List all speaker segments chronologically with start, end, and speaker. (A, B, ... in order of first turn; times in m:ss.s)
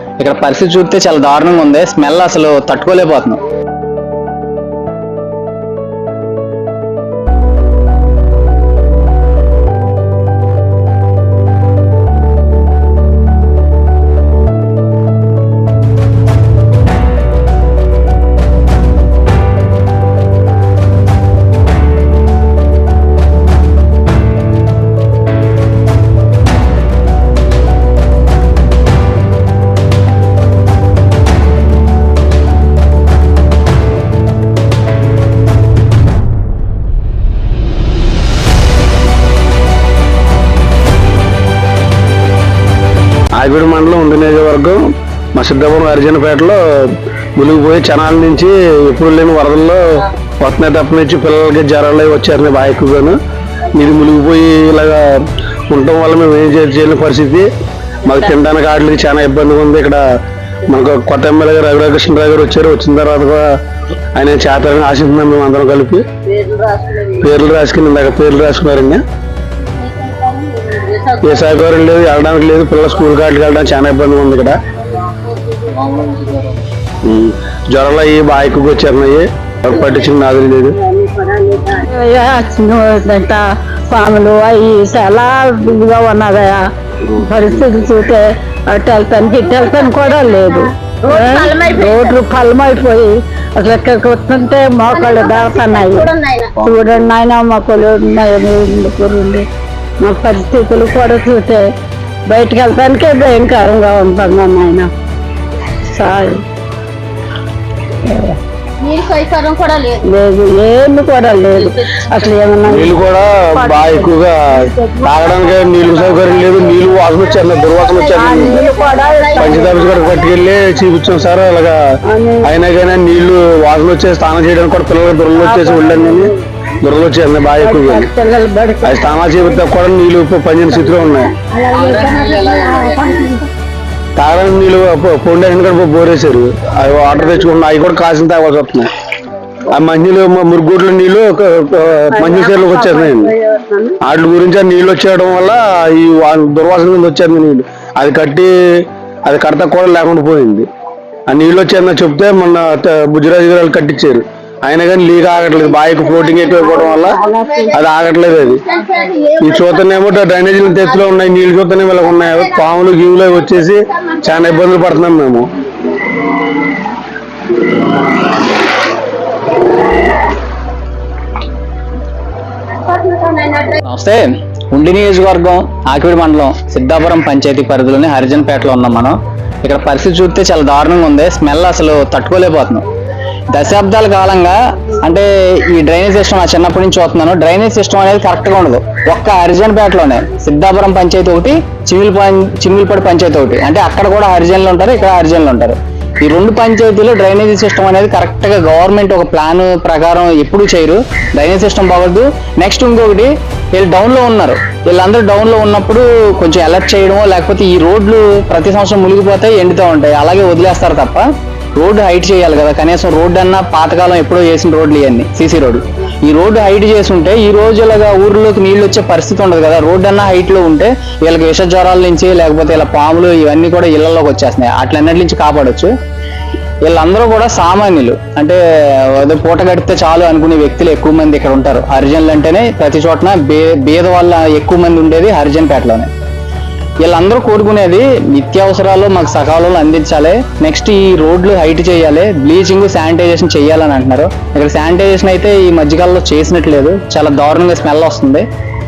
0:00.2-0:03.4 A
0:43.4-0:44.8 B
0:45.4-0:53.2 B
0:53.7-0:57.5 B
0:58.0-1:00.0 B
1:00.7-1:03.6 B
1:04.2-1:06.1 B
1:06.3-1:07.2 C
1:07.2-1:09.0 B
1:09.6-1:11.6 C
1:11.2-1:14.6 B
1:14.9-1:16.6 C
1:17.0-1:20.8 B
1:20.8-1:21.8 C
1:21.6-1:39.5 D
1:29.3-1:32.4 C
1:34.9-1:36.7 C
1:40.0-1:41.7 D
1:42.3-1:44.9 D
1:45.8-1:46.4 D
1:48.0-1:48.4 D
1:48.8-1:50.0 C
1:50.0-1:55.2 D
1:52.6-1:54.4 B
1:55.0-1:58.6 B
1:55.3-2:00.4 C
1:58.2-1:59.8 D
1:59.4-2:01.8 B
2:02.1-2:02.5 D
2:02.4-2:08.1 B
2:05.4-2:06.4 D
2:07.6-2:09.1 D
2:08.8-2:11.3 B
2:11.4-2:13.5 D
2:11.7-2:13.3 C
2:14.2-2:18.9 B
2:19.7-2:23.3 B
2:22.1-2:24.0 D
2:24.0-2:30.7 B
2:31.3-2:37.2 B
2:35.9-2:37.8 C
2:36.6-2:37.8 D
2:37.7-2:38.6 B
2:38.4-2:41.1 C
2:39.4-2:45.5 B
2:43.8-2:44.6 C
2:52.7-2:53.8 C
2:53.8-3:02.8 A
3:03.5-3:31.2 A
3:31.8-3:45.9 A
3:46.9-3:56.1 A
3:57.0-4:08.5 A